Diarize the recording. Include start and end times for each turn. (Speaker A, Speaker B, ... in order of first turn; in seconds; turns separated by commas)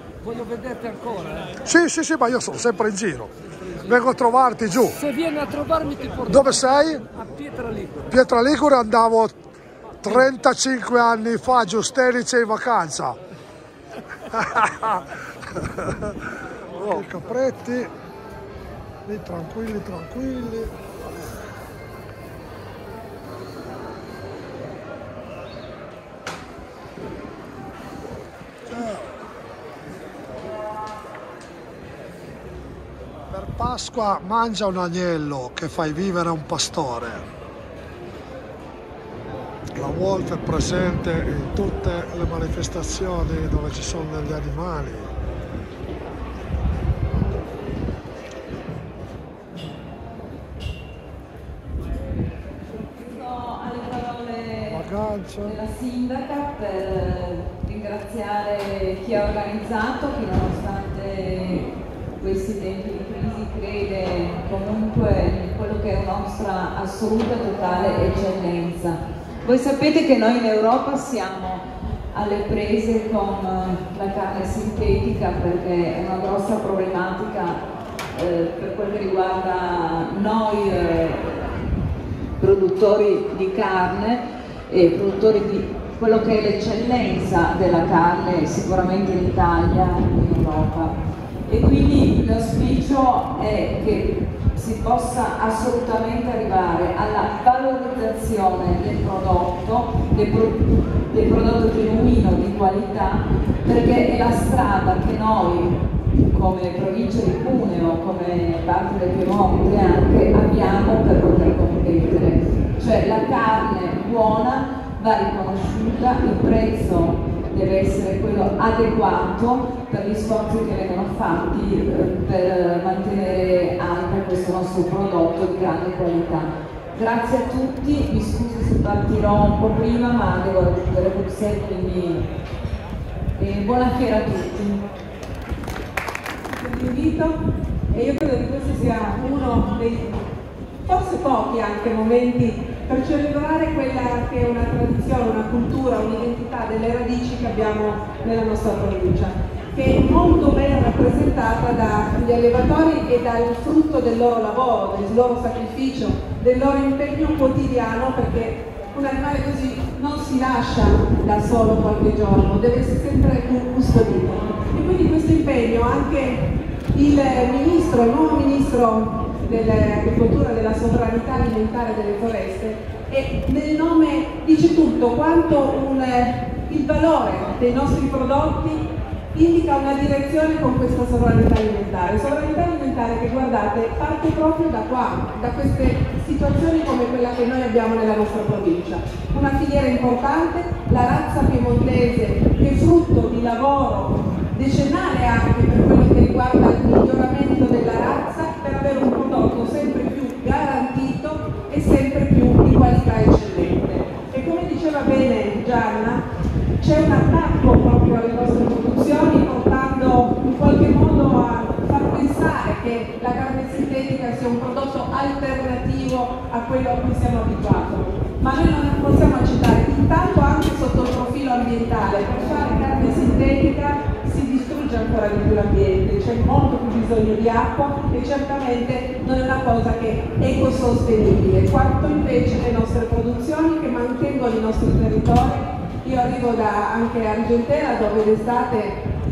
Speaker A: 0.2-1.6, Speaker B: 1.6-3.3, Speaker A: 3.4-4.0, Speaker B: 3.8-5.0, Speaker A: 4.8-8.2, Speaker B: 6.3-7.0, Speaker B: 8.1-9.4, Speaker B: 10.0-13.2, Speaker B: 14.3-17.9, Speaker B: 19.1-20.7, Speaker B: 28.6-29.2, Speaker B: 33.3-37.2, Speaker B: 39.7-45.1, Speaker C: 52.7-54.8, Speaker B: 54.7-55.6, Speaker C: 55.4-77.6, Speaker C: 78.1-81.6, Speaker C: 82.4-105.8, Speaker C: 106.3-132.3, Speaker C: 133.4-134.8, Speaker D: 136.5-137.3, Speaker D: 137.9-140.2, Speaker D: 140.8-206.2, Speaker D: 206.8-239.0